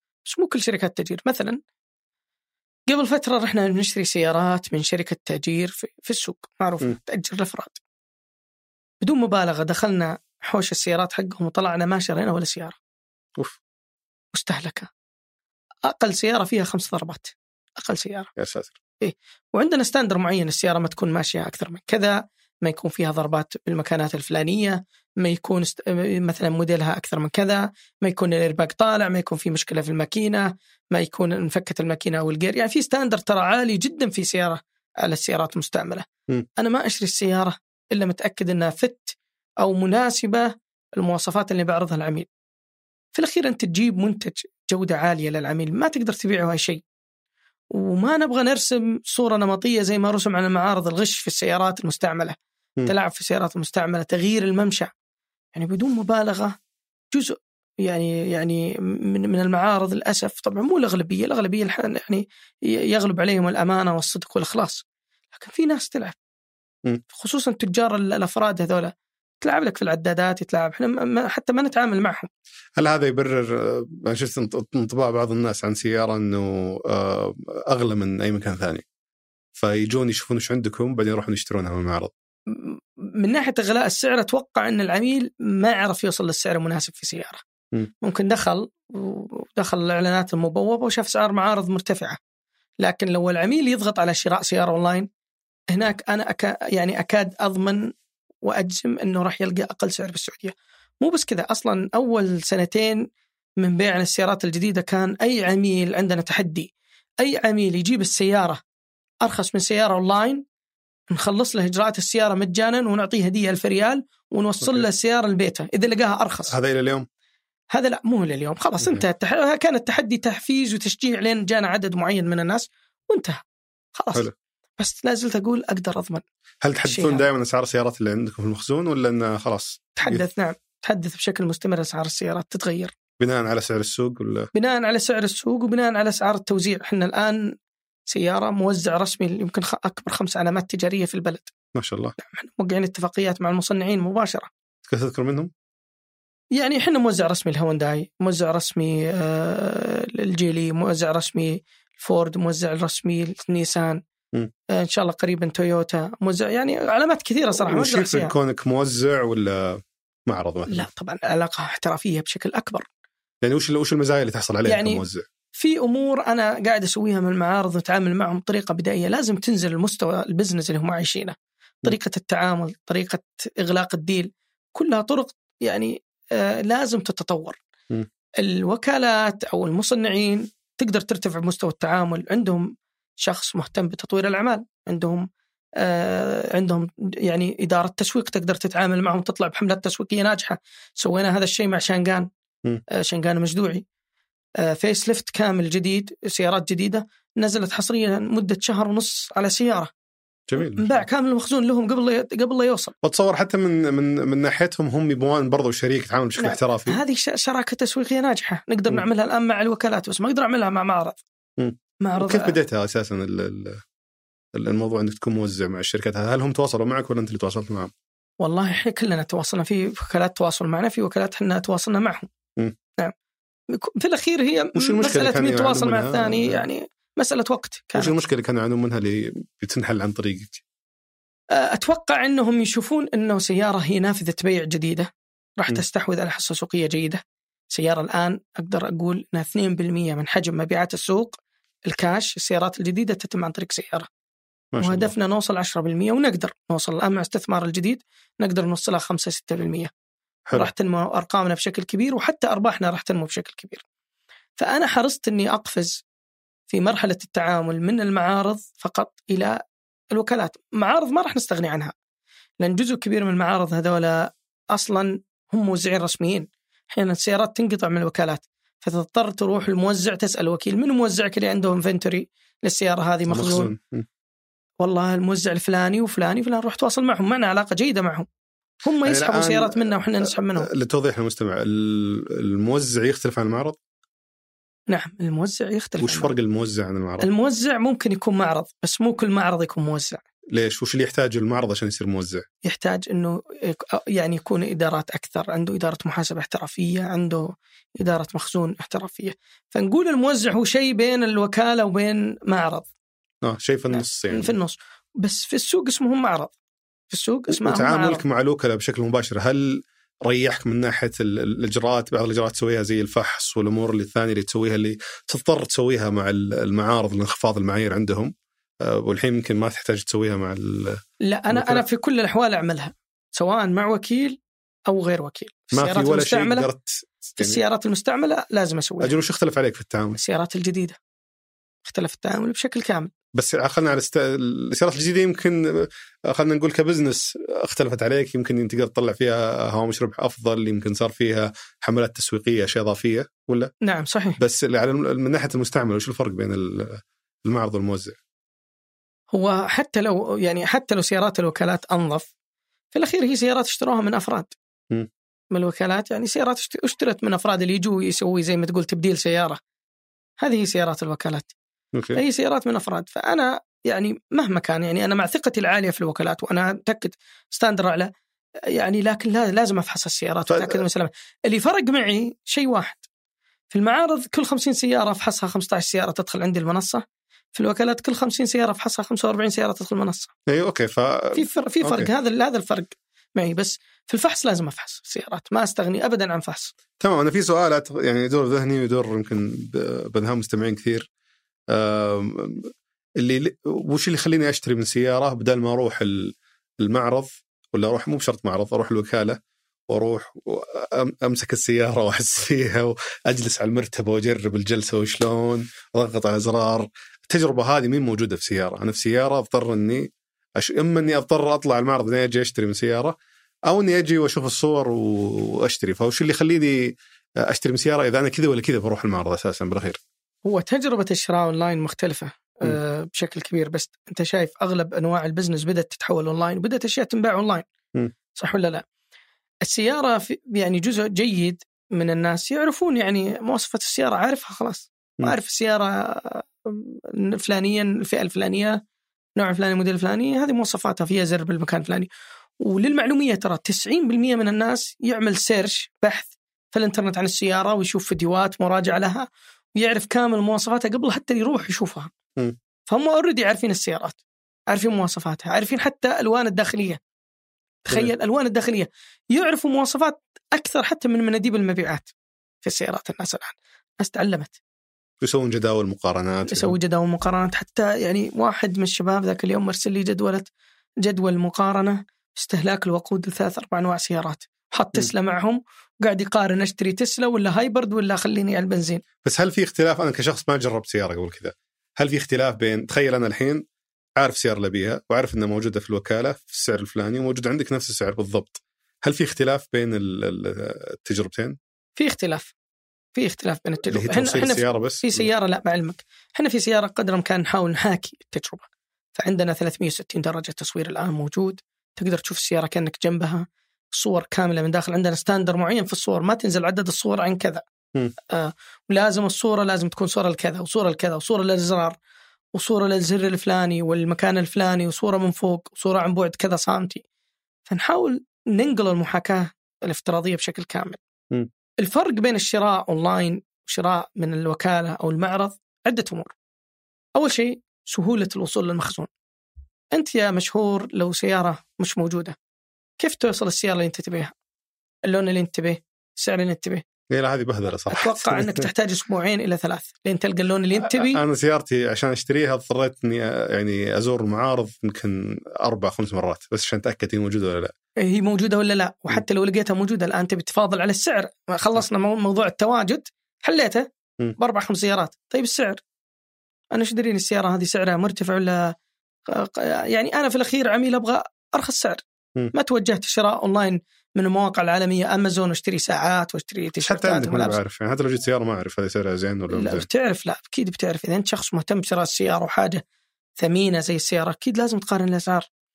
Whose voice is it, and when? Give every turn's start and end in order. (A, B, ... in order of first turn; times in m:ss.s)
0:00.2-0:01.6 A
0:02.9-0:07.8 A
0:09.0-0:12.8 A
0:14.3-0:14.9 A
0:15.9-0:18.3 A
0:18.4-0:18.8 B
0:19.0-0:42.3 A
0:43.1-0:46.8 A
0:47.7-0:54.9 A
0:55.5-0:56.6 A
0:57.1-1:06.2 A
1:07.1-1:12.3 A
1:12.8-1:18.8 B
1:19.6-1:22.1 B
1:22.5-1:27.4 A
1:28.0-1:32.2 A
1:32.8-1:35.1 A
1:35.7-1:43.1 A
1:43.6-1:48.6 A
1:49.2-1:50.5 A
1:51.1-1:56.6 A
1:56.5-1:57.1 B
1:57.7-2:03.4 A
2:04.0-2:06.2 A
2:06.6-2:10.2 B
2:06.8-2:07.3 A
2:10.0-2:12.9 A
2:13.2-2:14.5 B
2:14.5-2:17.6 A
2:18.1-2:21.5 A
2:21.8-2:22.2 B
2:22.2-2:24.5 A
2:24.9-2:25.5 B
2:26.5-2:34.0 A
2:34.7-2:38.3 A
2:37.6-2:40.9 B
2:40.7-2:42.9 A
2:43.4-2:45.2 B
2:44.7-2:45.0 A
2:45.5-2:57.6 A
2:58.4-3:12.3 A
3:12.9-3:13.8 A
3:14.6-3:19.9 A
3:20.5-3:21.0 B
3:20.6-3:23.0 A
3:23.0-3:27.0 B
3:26.4-3:31.2 A
3:31.6-3:33.8 B
3:32.0-3:32.6 A
3:34.5-3:37.9 B
3:38.4-3:42.3 A
3:43.7-3:48.2 A
3:44.8-3:46.6 B
3:48.0-3:50.6 B
3:51.5-4:04.1 A
4:04.7-4:05.1 B
4:04.8-4:09.9 A
4:10.5-4:13.8 A
4:14.6-4:16.0 A
4:16.7-4:21.9 A
4:22.6-4:33.7 A
4:33.3-4:34.1 B
4:34.8-4:38.3 A
4:38.8-4:40.7 A
4:39.0-4:43.8 B
4:44.9-4:46.3 A
4:46.0-4:47.3 B
4:47.2-4:50.2 A
4:50.5-4:52.4 B
4:52.6-5:02.9 A
5:03.4-5:04.5 B
5:03.9-5:06.5 A
5:07.1-5:08.2 A
5:07.5-5:21.0 B
5:21.2-5:26.7 A
5:21.5-5:21.8 B
5:25.7-5:27.6 B
5:27.3-5:29.1 A
5:29.0-5:30.2 B
5:30.2-5:31.0 A
5:31.8-5:33.1 A
5:33.3-5:43.7 B
5:43.8-5:44.4 A
5:44.4-5:48.2 B
5:49.3-5:52.3 A
5:52.9-5:54.6 A
5:55.5-5:59.6 A
6:00.4-6:01.5 A
6:01.9-6:02.2 B
6:02.1-6:08.1 A
6:08.7-6:13.1 A
6:10.5-6:10.8 B
6:13.7-6:20.3 A
6:20.5-6:22.1 B
6:21.4-6:26.7 A
6:27.0-6:31.1 B
6:31.7-6:53.2 B
6:53.7-7:00.0 B
7:00.4-7:07.7 A
7:08.3-7:08.9 A
7:09.6-7:18.8 A
7:19.4-7:32.1 A
7:32.9-7:37.0 A
7:37.8-7:42.1 A
7:42.6-7:44.6 A
7:45.2-7:46.7 B
7:46.5-7:50.5 A
7:51.0-7:59.0 A
7:59.2-8:03.7 B
8:04.2-8:11.6 B
8:12.0-8:12.5 A
8:13.2-8:27.6 A
8:13.9-8:15.3 B
8:28.3-8:32.0 A
8:32.5-8:37.0 A
8:37.7-8:41.0 A
8:41.8-8:46.3 A
8:47.2-8:49.1 A
8:49.9-8:52.4 A
8:53.0-8:54.3 A
8:55.1-8:56.8 A
8:57.1-8:58.6 B
8:57.9-9:01.2 A
9:00.8-9:07.7 B
9:08.0-9:15.8 A
9:16.7-9:18.8 A
9:19.3-9:27.6 A
9:26.8-9:29.9 B
9:29.5-9:32.8 A
9:33.4-9:35.5 A